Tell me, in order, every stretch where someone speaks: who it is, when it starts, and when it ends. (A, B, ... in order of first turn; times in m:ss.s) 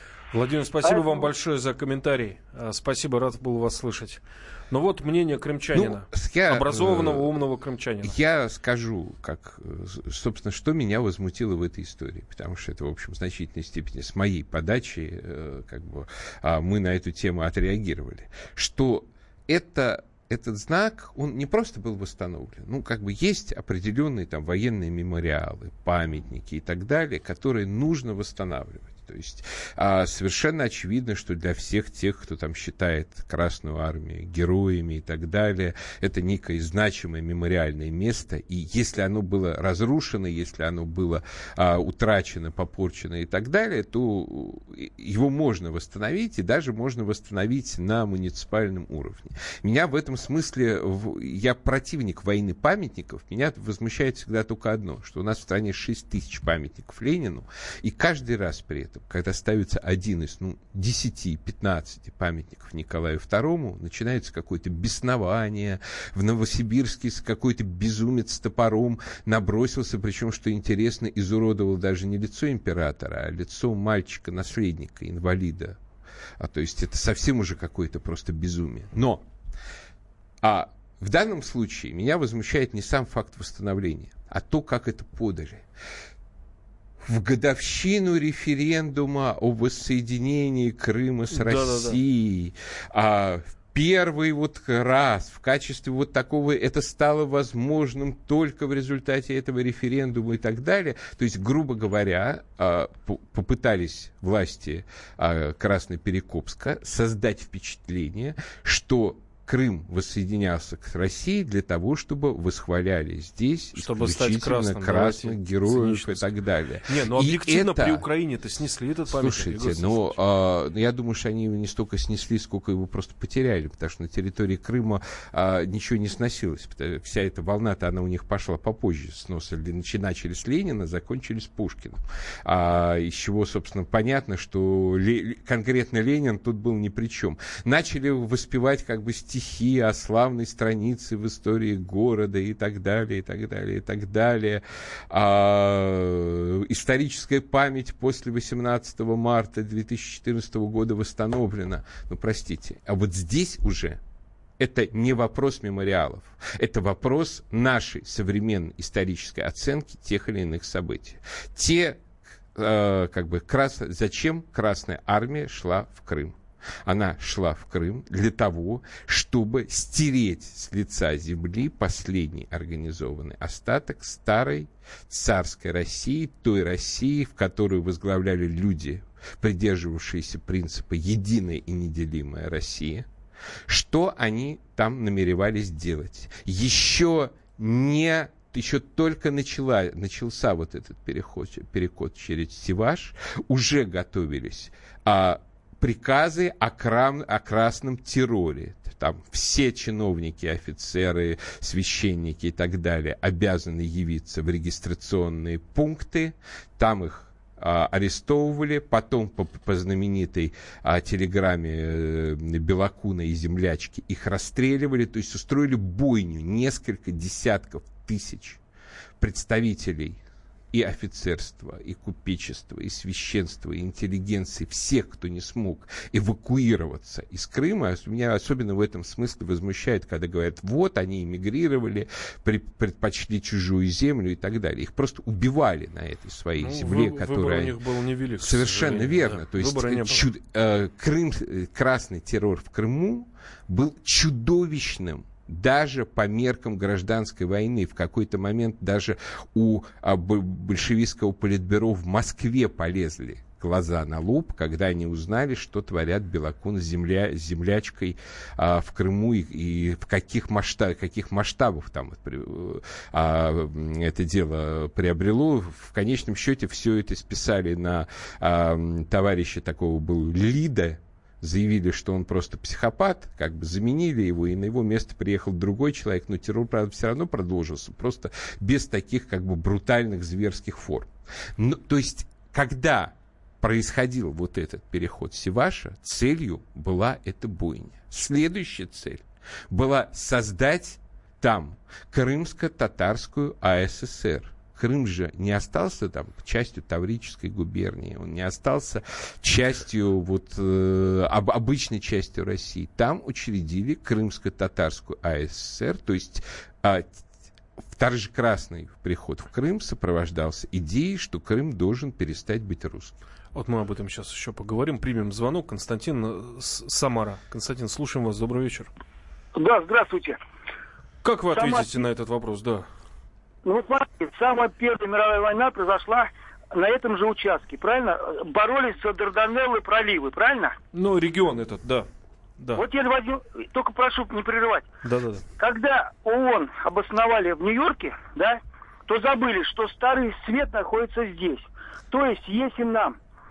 0:00.3-0:08.1 A
0:05.7-0:07.3 B
0:08.0-1:15.8 B
1:16.4-1:19.2 B
1:20.4-1:25.6 B
1:27.0-1:58.0 B
1:31.3-1:32.0 A
1:53.7-1:56.3 A
1:56.8-2:00.2 A
1:59.1-2:34.0 B
2:34.6-2:42.0 B
2:42.6-3:03.1 B
3:03.7-3:38.6 B
3:39.2-3:40.2 B
3:40.7-3:57.8 B
3:56.6-4:00.3 A
3:58.4-5:07.2 B
5:07.9-5:13.2 B
5:13.5-5:18.9 A
5:19.6-5:20.4 C
5:21.2-5:22.9 A
5:21.5-5:21.9 C
5:23.6-5:30.8 C
5:30.9-5:32.8 A
5:32.7-5:34.9 C
5:35.0-5:35.4 A
5:35.6-5:43.2 C